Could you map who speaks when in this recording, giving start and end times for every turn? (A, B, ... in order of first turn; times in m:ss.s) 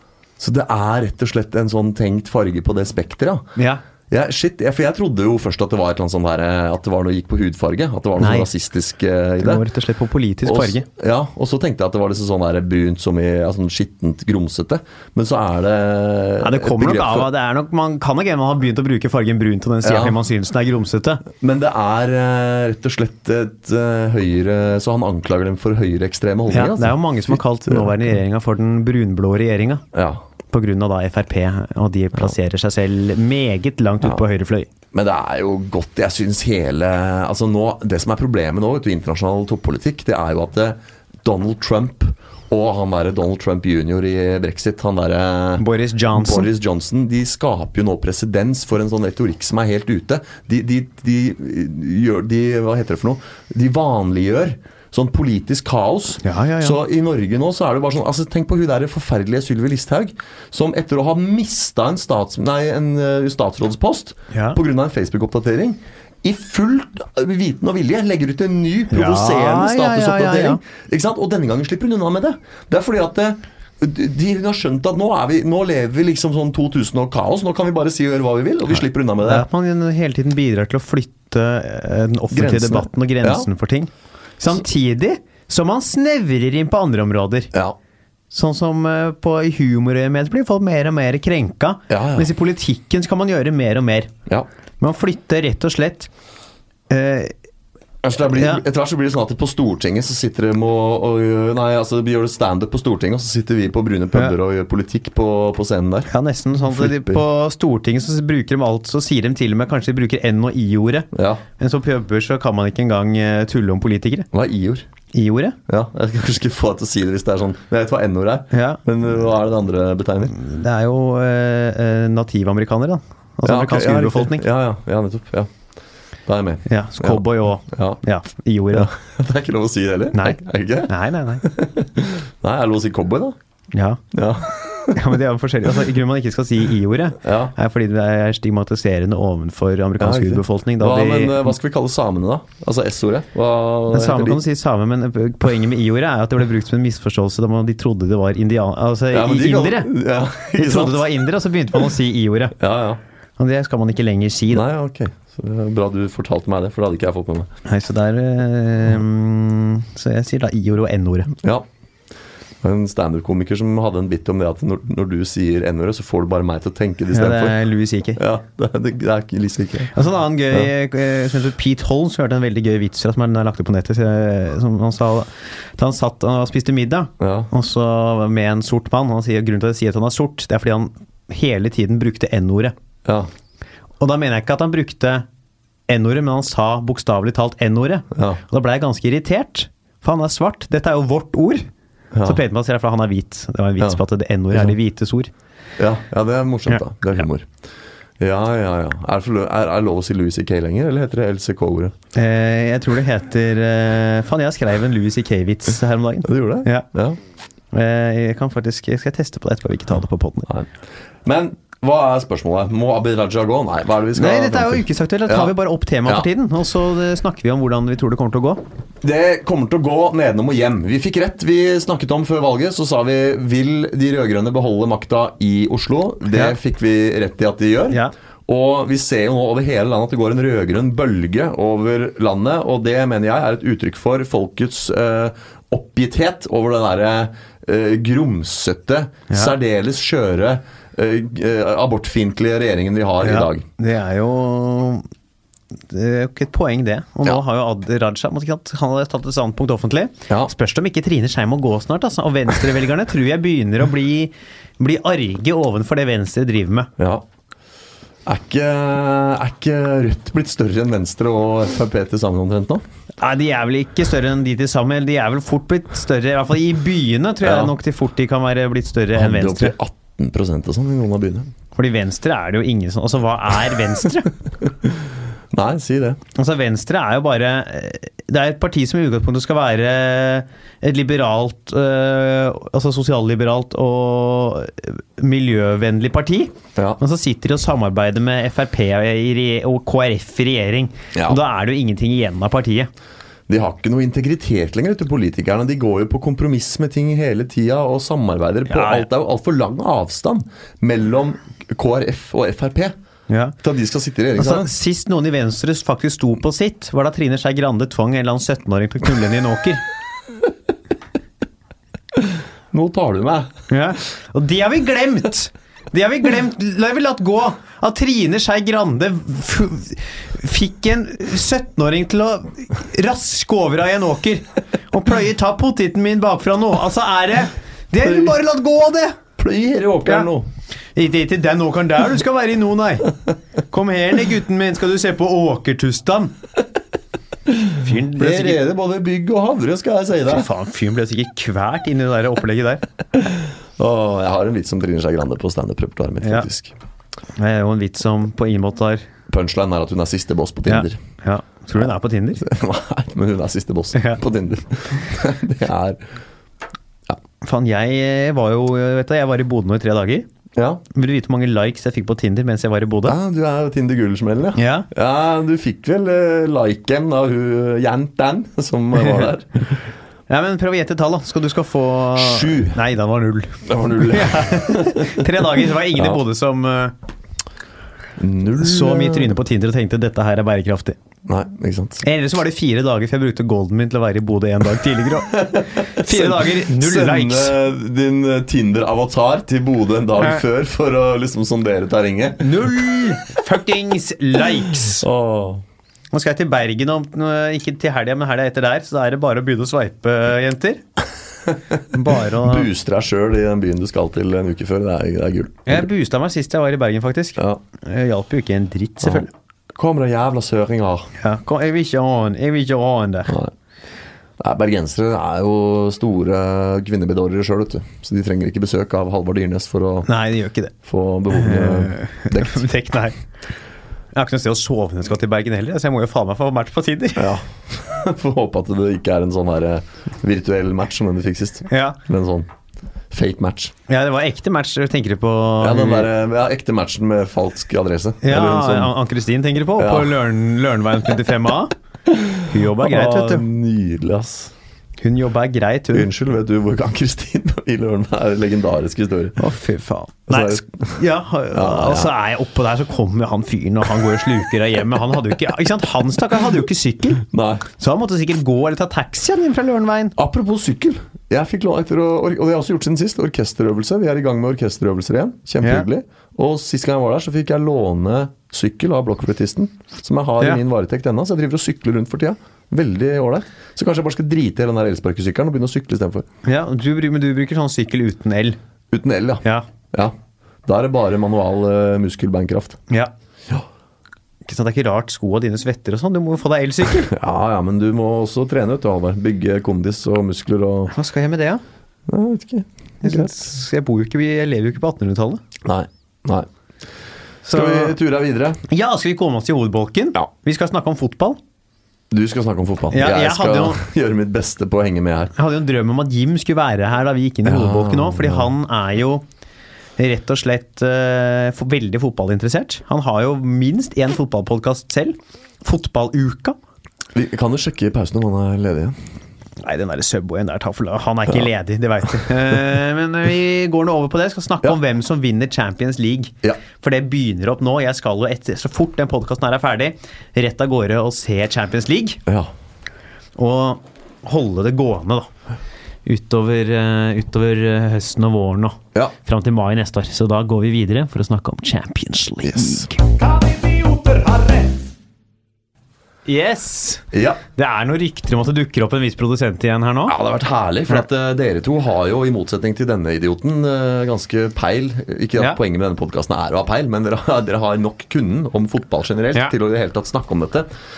0:00.4-0:03.5 A
0:03.6-0:03.8 B
0:04.1-0:09.6 A
0:08.2-0:08.5 B
0:09.4-0:10.9 B
0:10.4-0:17.3 A
0:16.4-0:21.2 B
0:19.8-0:20.2 A
0:21.3-0:28.1 A
0:26.5-0:29.8 B
0:29.9-0:30.2 A
0:30.5-0:34.7 B
0:34.9-1:19.5 A
0:45.6-0:46.5 B
0:56.2-0:56.8 B
1:04.3-1:04.6 B
1:08.9-1:10.6 B
1:19.2-1:27.5 B
1:22.3-1:23.5 A
1:28.3-1:34.1 B
1:31.9-1:32.3 A
1:34.8-1:36.1 B
1:36.9-1:37.3 B
1:38.0-1:46.1 A
1:38.3-1:38.6 B
1:46.1-1:54.3 B
1:46.6-1:47.2 A
1:51.1-1:51.4 A
1:54.3-1:54.9 A
1:55.1-1:55.6 B
1:55.7-2:00.4 A
1:58.5-1:58.8 B
2:00.3-2:04.4 B
2:03.4-2:05.5 A
2:06.3-2:08.0 A
2:06.7-2:08.9 B
2:08.7-2:13.4 A
2:10.1-2:11.4 B
2:13.7-2:14.0 B
2:14.1-2:15.0 A
2:14.9-2:21.5 B
2:17.2-2:17.5 A
2:20.0-2:24.4 A
2:23.9-2:29.9 B
2:29.1-2:31.1 A
2:30.5-2:32.6 B
2:32.6-2:33.0 A
2:33.4-2:34.7 B
2:34.5-2:37.5 A
2:37.7-2:41.3 B
2:42.6-2:47.6 A
2:47.1-2:48.2 B
2:48.2-2:49.9 A
2:49.9-3:02.7 B
2:57.2-2:57.5 A
3:04.0-3:05.3 B
3:05.9-3:11.7 B
3:08.1-3:08.4 A
3:12.1-3:12.4 A
3:12.2-3:15.3 B
3:15.8-3:17.5 A
3:18.2-3:21.9 A
3:22.2-3:26.9 B
3:26.2-3:27.2 A
3:27.7-3:30.5 B
3:31.2-3:35.5 A
3:34.2-3:38.6 B
3:39.0-4:03.6 A
3:46.3-3:46.6 B
3:59.3-3:59.6 B
4:03.2-4:05.1 B
4:05.9-4:16.9 B
4:17.0-4:17.2 A
4:18.3-4:22.8 A
4:23.2-4:29.7 B
4:27.4-4:27.7 A
4:29.2-4:31.5 A
4:31.8-4:34.3 B
4:35.5-4:36.2 A
4:36.4-4:52.9 B
4:51.2-4:51.4 A
4:53.5-5:03.0 A
4:58.7-4:59.1 B
5:03.3-5:03.6 B
5:03.6-5:04.7 A
5:04.4-5:09.8 B
5:12.7-5:13.5 A
5:13.7-5:29.2 B
5:28.0-5:28.3 A
5:29.4-5:30.5 A
5:31.0-5:33.2 B
5:33.7-5:36.3 B
5:37.8-5:38.6 B
5:38.2-5:40.5 A
5:40.3-5:42.8 B
5:43.8-5:46.7 A
5:46.2-5:46.5 B
5:47.4-5:49.1 B
5:49.3-5:51.0 A
5:50.7-5:52.4 B
5:52.4-5:56.0 A
5:53.9-5:54.2 B
5:57.4-6:00.3 B
6:00.6-6:00.8 A
6:00.9-6:03.2 B
6:03.0-6:09.8 A
6:04.6-6:04.9 B
6:10.3-6:17.0 B
6:12.2-6:12.8 A
6:13.6-6:15.3 A
6:18.2-6:19.4 A
6:18.6-6:21.0 B
6:21.3-6:22.0 A
6:22.0-6:27.6 B
6:25.3-6:32.7 A
6:32.4-6:35.1 B
6:35.0-6:35.6 A
6:36.1-6:40.8 B
6:41.9-6:42.7 B
6:42.3-6:45.9 A
6:45.7-6:49.3 B
6:49.0-6:51.1 A
6:51.2-6:53.4 B
6:54.4-7:00.1 A
7:00.1-7:00.7 B
7:00.8-7:02.6 A
7:01.3-7:03.2 B
7:04.1-7:07.4 B
7:07.2-7:12.5 A
7:11.7-7:12.0 B
7:13.1-7:13.7 A
7:13.9-7:16.1 B
7:15.6-7:18.9 A
7:18.2-7:21.7 B
7:19.8-7:20.2 A
7:22.1-7:24.5 A
7:22.5-7:23.4 B
7:25.0-7:26.1 B
7:25.9-7:29.4 A
7:29.4-7:37.2 B
7:30.3-7:31.0 A
7:31.5-7:32.1 A
7:37.3-7:37.7 A
7:37.8-7:40.2 B
7:40.2-7:56.2 A
7:56.4-7:58.6 B
7:58.9-8:00.1 A
8:00.7-8:02.8 A
8:04.5-8:07.1 B
8:07.1-8:10.9 A
8:10.9-8:11.6 B
8:12.1-8:13.3 A
8:13.0-8:15.4 B
8:15.6-8:16.5 A
8:17.5-8:18.0 B
8:17.5-8:18.6 A
8:18.7-8:21.4 B
8:22.1-8:25.3 A
8:22.9-8:23.8 B
8:25.4-8:29.2 B
8:27.4-8:28.5 A
8:30.0-8:36.6 B
8:37.1-8:39.0 A
8:39.6-8:52.2 B
8:52.3-8:52.5 A
8:53.4-8:55.3 B
8:56.1-9:04.7 B
9:02.4-9:02.9 A
9:06.3-9:10.2 B
9:07.1-9:07.4 A
9:10.1-9:20.7 A